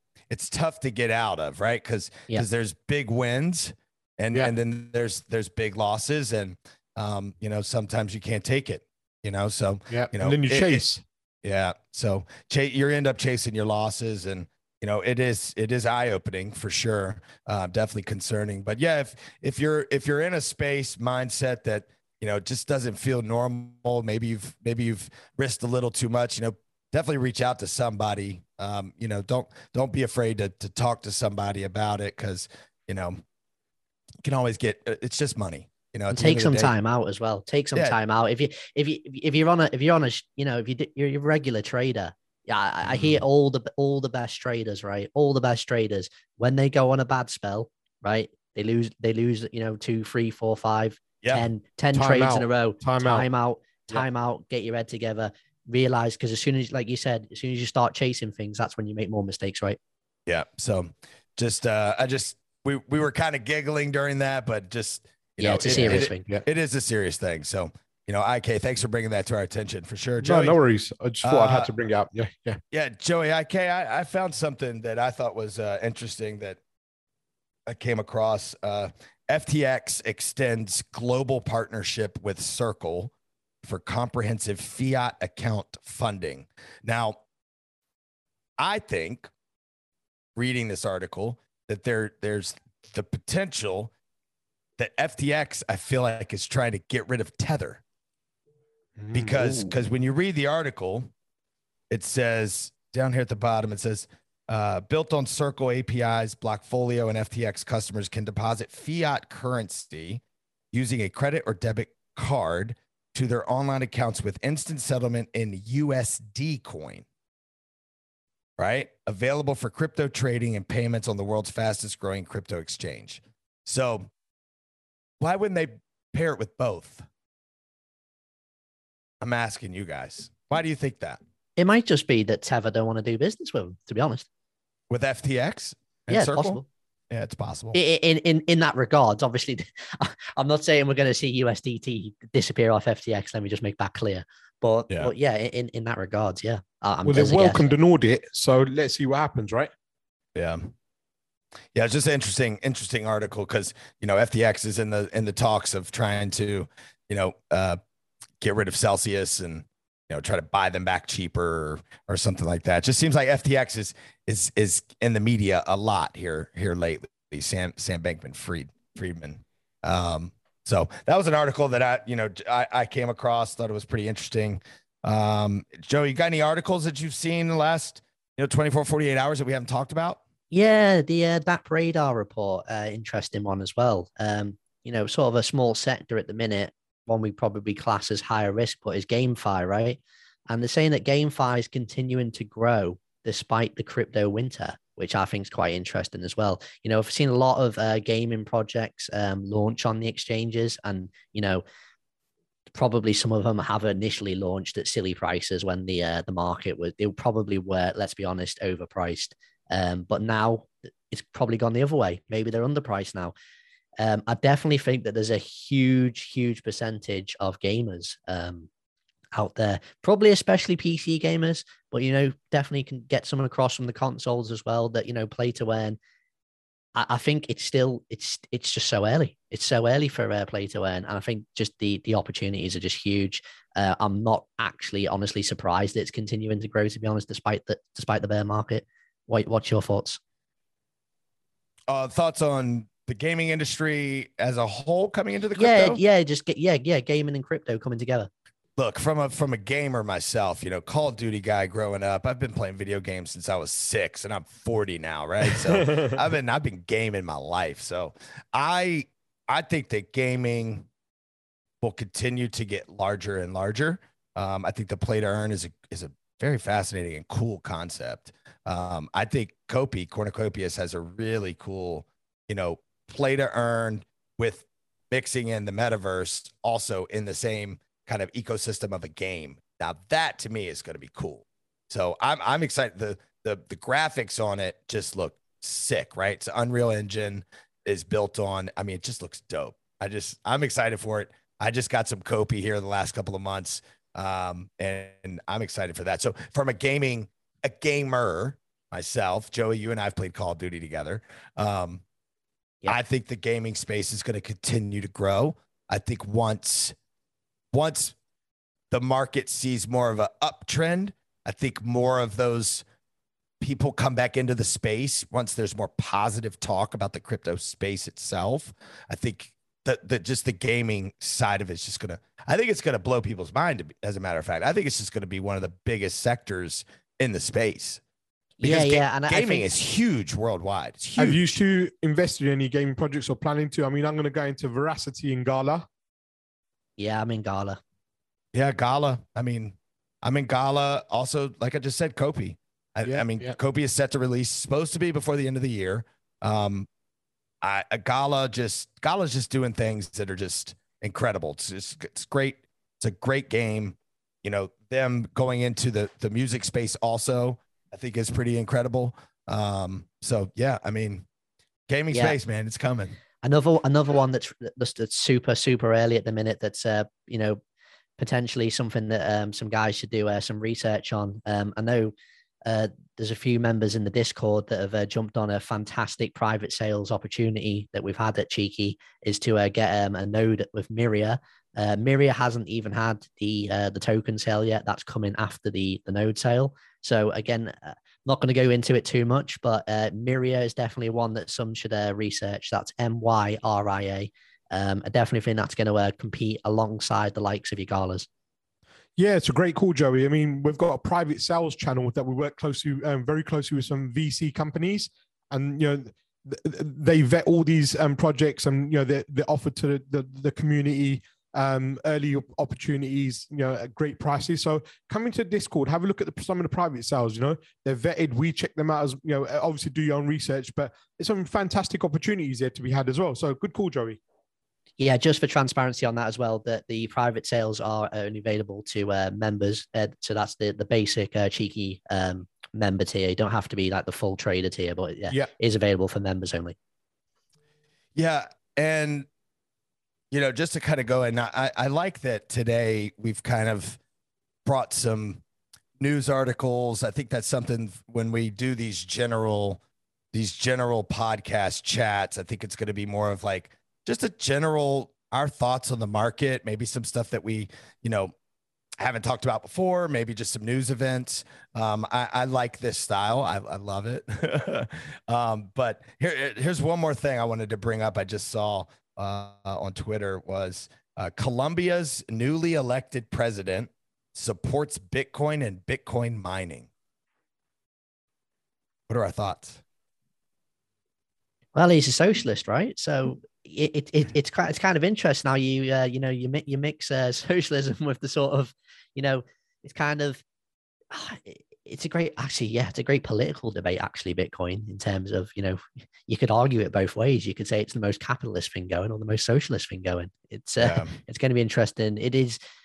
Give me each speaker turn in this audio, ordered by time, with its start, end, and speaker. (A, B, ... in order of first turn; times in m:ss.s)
0:00.3-0:10.8 A
0:09.9-0:11.0 B
0:11.4-0:33.2 A
0:34.2-0:36.7 A
0:36.1-0:59.8 C
0:51.9-0:53.3 B
1:00.3-1:10.6 A
1:05.4-1:06.3 C
1:05.7-1:06.4 B
1:10.2-1:12.6 B
1:11.2-1:11.7 A
1:12.7-1:16.6 A
1:17.7-1:27.2 A
1:28.6-1:29.3 A
1:30.4-1:33.9 A
1:34.8-1:37.8 A
1:39.0-1:39.7 B
1:39.1-1:41.1 A
1:41.9-1:50.2 A
1:50.7-1:57.0 A
1:58.6-2:04.1 A
2:05.2-2:07.0 A
2:09.2-2:11.2 A
2:11.6-2:14.2 C
2:14.9-2:17.8 A
2:16.1-2:16.6 C
2:17.7-2:27.7 C
2:27.0-2:29.7 B
2:30.3-2:30.7 A
2:31.7-2:37.8 A
2:38.4-3:00.2 A
3:00.5-3:21.6 C
3:22.7-3:33.3 C
3:34.0-3:38.7 C
3:39.3-3:46.0 C
3:46.9-4:00.2 C
4:01.9-4:06.0 A
4:05.6-4:08.3 C
4:08.8-4:20.9 A
4:15.7-4:16.1 B
4:21.8-5:02.0 A
5:02.9-5:07.0 A
5:07.7-5:08.2 A
5:08.9-5:12.8 A
5:13.6-5:28.0 A
5:28.6-5:29.7 C
5:28.6-5:31.6 A
5:31.2-5:35.8 B
5:37.0-5:37.8 C
5:38.5-5:46.9 A
5:43.0-5:43.6 B
5:47.6-6:01.2 A
6:01.9-6:03.2 A
6:02.1-6:02.4 C
6:03.4-6:07.6 C
6:08.2-6:12.1 C
6:12.6-6:38.3 C
6:39.2-7:04.2 B
7:05.0-7:16.8 C
7:18.1-7:19.3 A
7:20.3-7:24.0 A
7:24.6-7:25.4 A
7:26.0-7:29.8 A
7:30.3-7:38.3 A
7:39.0-7:56.9 A
7:59.1-7:59.8 A
8:01.7-8:10.4 C
8:11.1-8:22.6 C
8:20.8-8:21.1 A